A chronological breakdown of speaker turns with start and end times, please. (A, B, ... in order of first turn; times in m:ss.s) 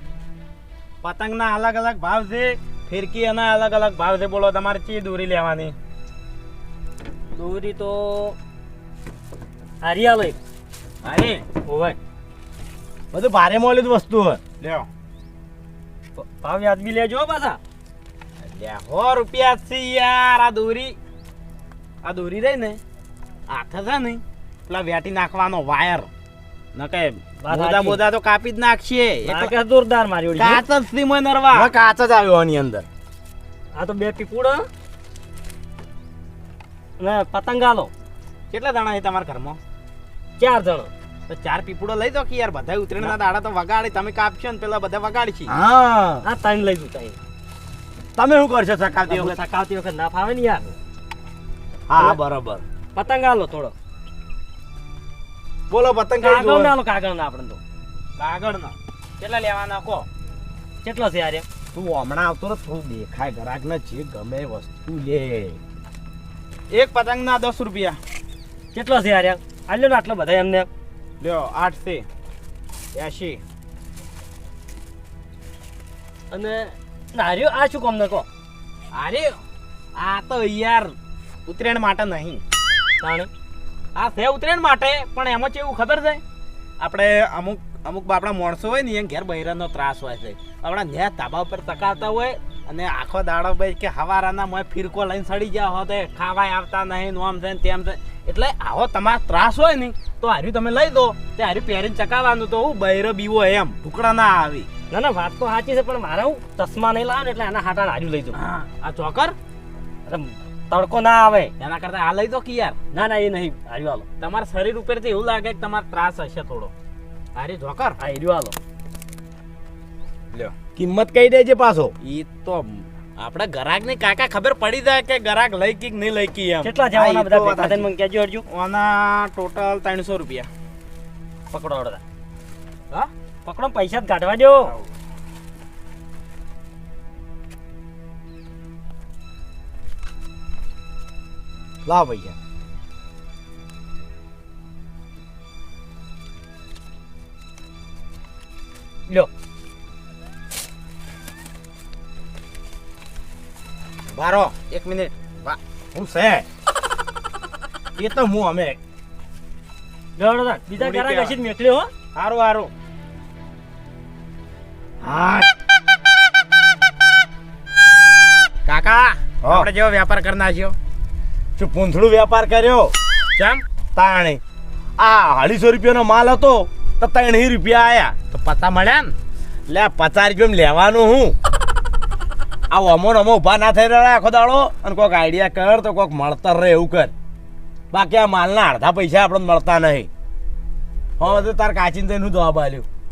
0:01.0-0:05.8 A
0:07.3-0:08.4 B
0:09.8-0:10.4 B
0:11.0-0:11.4 A
0:11.5-0:12.0 B
0:13.1-0:14.4 C
0:14.6-0:14.9 A
0:16.2-0:17.6 B
0:18.4-0:21.0 A
0:22.0-0:22.8 A
0:23.5-0:26.1 A
0:26.8-0:29.5 A
0:27.4-0:28.0 B
0:29.2-0:30.6 B
0:30.3-0:31.7 A
0:31.5-0:32.9 C
0:33.8-0:34.7 B
0:37.0-0:37.9 B
0:38.5-0:39.6 A
0:40.4-0:40.9 B
0:41.3-0:45.5 A
0:45.5-0:46.2 C
0:46.2-0:47.2 B
0:48.2-0:49.4 C
0:49.1-0:50.8 B
0:51.9-0:52.6 C
0:53.0-0:53.7 B
0:55.7-0:56.7 A
0:56.2-0:57.6 B
0:56.3-0:56.7 C
0:58.2-1:00.1 A
1:00.8-1:01.5 B
1:01.7-1:03.3 A
1:03.1-1:05.6 C
1:06.7-1:08.0 A
1:08.7-1:10.7 B
1:11.2-1:12.1 A
1:13.0-1:13.4 A
1:16.3-1:18.3 B
1:18.9-1:19.4 A
1:20.0-1:21.0 A
1:21.5-1:22.4 A
1:23.0-1:23.3 B
1:24.0-1:26.2 A
1:26.8-1:44.7 A
1:44.9-1:48.4 B
1:48.3-1:49.4 A
1:50.1-1:51.5 B
1:51.6-1:52.8 A
1:52.9-1:54.1 B
1:54.2-1:56.7 A
1:57.4-1:58.0 A
1:58.0-1:58.6 B
2:00.8-2:01.9 C
2:02.0-2:07.9 A
2:06.6-2:08.4 B
2:08.5-2:10.5 A
2:11.5-2:12.0 B
2:13.0-2:14.7 B
2:21.9-2:22.3 C
2:34.1-2:35.6 A
2:35.9-2:36.4 C
2:38.0-2:38.8 C
2:40.2-2:41.9 B
2:40.8-2:41.3 A
2:40.8-2:41.3 C
2:42.2-2:42.7 A
2:45.0-2:45.5 A
2:48.7-2:50.8 A
2:49.4-2:49.7 C
2:51.6-2:52.9 C
2:53.4-2:53.6 A
2:54.0-2:54.4 C
2:55.0-2:58.2 C
2:58.3-2:59.1 A
2:59.7-3:01.4 C
3:02.7-3:07.1 C
3:07.9-3:10.1 C
3:11.2-3:12.9 C